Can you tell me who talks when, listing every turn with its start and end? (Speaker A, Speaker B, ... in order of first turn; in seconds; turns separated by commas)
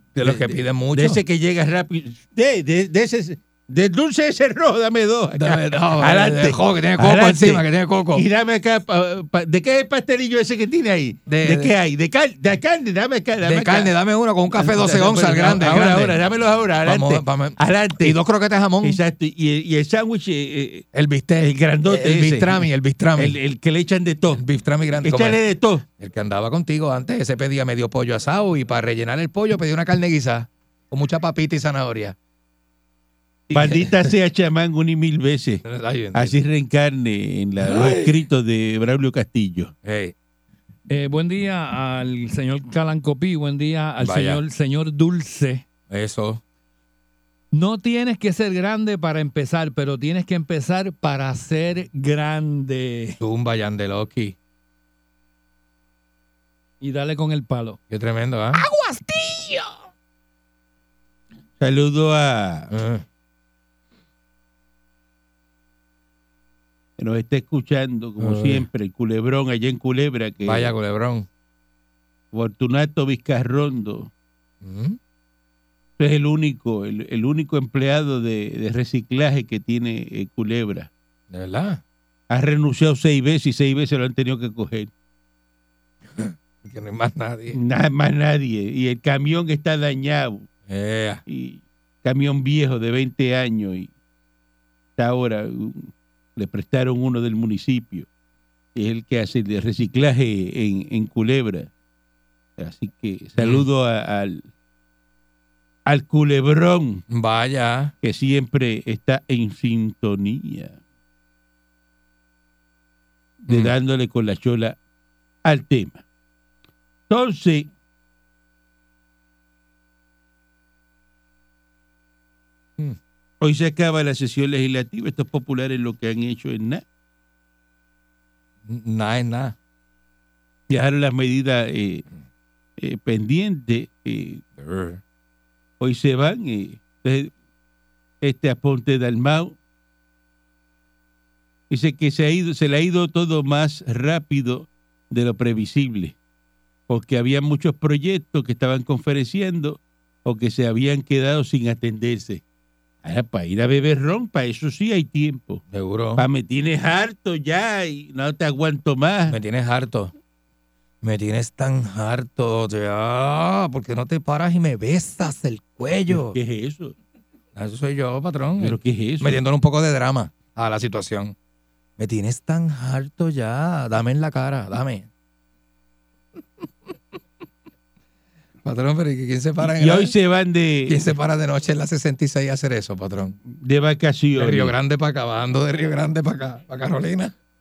Speaker A: 0.1-1.2, Speaker B: 0.2-13.9, Speaker A: 5.4-8.2, Speaker A: 11.3-11.7, Speaker A: 13.4-16.2, Speaker B: 14.5-18.2, Speaker A: 16.9-19.0, Speaker B: 18.8-20.9, Speaker A: 20.9-23.4, Speaker B: 21.4-24.4, Speaker A: 24.4-25.4, Speaker B: 25.0-25.9, Speaker A: 26.0-32.2, Speaker B: 33.5-35.6, Speaker A: 33.5-34.1, Speaker A: 35.6-36.4, Speaker B: 36.1-39.7, Speaker A: 37.6-38.1, Speaker A: 39.8-40.1, Speaker C: 40.9-45.6, Speaker A: 44.0-44.4, Speaker A: 45.9-46.4, Speaker C: 47.5-53.2, Speaker A: 53.2-54.4, Speaker C: 56.8-57.8, Speaker A: 57.9-58.6, Speaker C: 58.7-59.3, Speaker B: 61.6-62.7, Speaker A: 62.7-63.0, Speaker B: 67.0-70.7, Speaker A: 68.2-68.7, Speaker A: 70.4-71.3, Speaker B: 72.3-74.1, Speaker A: 74.6-75.0, Speaker B: 76.0-80.9, Speaker A: 81.3-81.8, Speaker B: 82.3-84.9, Speaker A: 86.2-87.6, Speaker B: 87.5-90.5, Speaker A: 90.7-91.2, Speaker B: 91.3-93.9, Speaker B: 95.0-98.1, Speaker B: 98.8-101.7, Speaker B: 102.6-104.5, Speaker A: 103.4-103.7, Speaker B: 105.9-107.0, Speaker A: 107.1-107.9, Speaker B: 108.0-110.8, Speaker B: 113.4-114.8, Speaker A: 113.5-113.7, Speaker B: 115.5-116.0, Speaker B: 117.1-117.7, Speaker B: 123.4-126.8, Speaker A: 128.7-129.6, Speaker B: 130.7-132.1, Speaker B: 132.8-134.4, Speaker A: 134.6-135.0, Speaker B: 135.8-137.3, Speaker B: 138.2-139.6, Speaker B: 141.7-146.2, Speaker B: 146.9-152.4, Speaker B: 153.0-155.6, Speaker A: 155.7-156.2, Speaker B: 156.2-159.4, Speaker A: 159.3-160.1, Speaker A: 161.0-166.4, Speaker B: 166.1-166.9, Speaker A: 167.6-171.3, Speaker B: 168.6-169.4, Speaker A: 172.0-175.1, Speaker A: 178.6-180.2, Speaker B: 179.6-181.1, Speaker A: 180.9-183.4, Speaker B: 183.5-184.8, Speaker A: 184.4-187.3